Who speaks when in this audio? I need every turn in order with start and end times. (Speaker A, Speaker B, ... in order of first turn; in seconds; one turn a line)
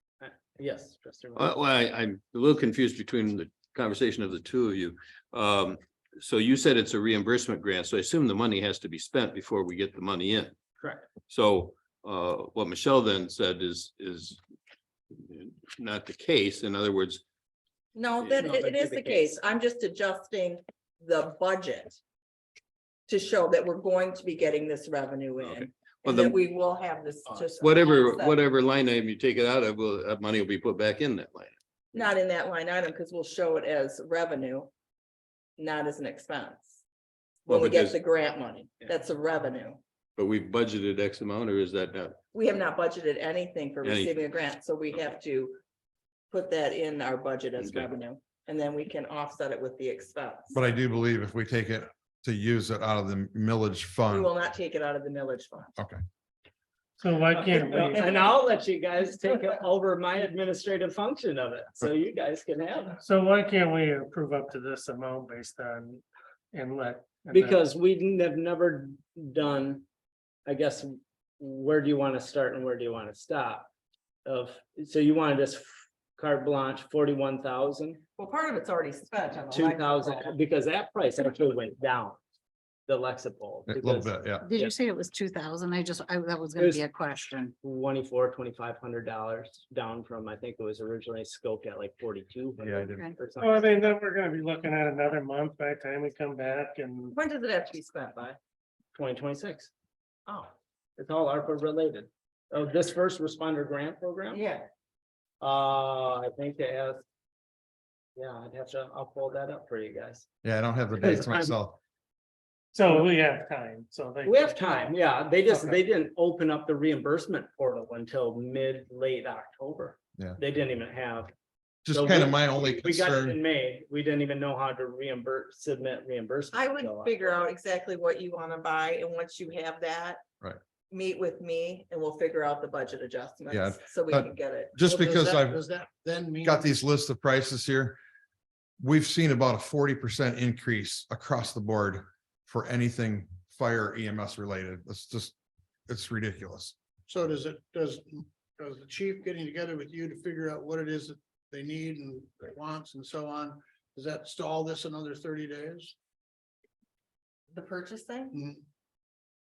Speaker A: 0.2-1.6
Speaker B: 1.4-10.6
Speaker A: 10.8-11.1
Speaker B: 11.3-14.4
Speaker B: 15.1-17.2
Speaker C: 17.9-22.0
Speaker A: 18.4-19.4
Speaker C: 23.1-28.4
Speaker B: 25.4-26.4
Speaker B: 27.6-31.6
Speaker C: 31.9-34.7
Speaker C: 35.6-36.8
Speaker B: 37.5-38.0
Speaker C: 37.5-39.8
Speaker B: 40.2-42.2
Speaker C: 42.3-45.6
Speaker B: 43.8-44.3
Speaker C: 46.3-50.6
Speaker B: 47.6-47.9
Speaker D: 50.5-54.3
Speaker C: 54.1-55.7
Speaker E: 57.0-58.1
Speaker A: 57.3-63.0
Speaker C: 57.8-58.4
Speaker E: 63.0-67.6
Speaker A: 67.3-69.8
Speaker A: 70.5-73.7
Speaker A: 74.2-78.0
Speaker C: 78.2-80.3
Speaker A: 79.5-82.2
Speaker A: 82.9-84.7
Speaker D: 83.7-84.5
Speaker F: 84.4-87.5
Speaker A: 86.6-86.8
Speaker A: 87.6-93.7
Speaker D: 92.6-93.1
Speaker E: 93.4-97.2
Speaker C: 97.1-98.4
Speaker A: 99.0-99.7
Speaker C: 100.3-100.5
Speaker A: 101.0-104.4
Speaker C: 104.3-104.7
Speaker A: 105.4-107.0
Speaker A: 108.2-110.3
Speaker D: 110.4-111.8
Speaker A: 111.0-111.5
Speaker E: 112.7-115.8
Speaker A: 114.2-121.3
Speaker D: 121.9-123.4
Speaker A: 121.9-127.4
Speaker C: 126.5-130.2
Speaker C: 130.9-134.8
Speaker D: 133.5-135.6
Speaker G: 134.8-136.7
Speaker D: 136.4-138.0
Speaker D: 138.8-145.3
Speaker D: 145.9-146.8
Speaker G: 147.1-155.9
Speaker C: 157.5-158.4
Speaker G: 158.3-158.6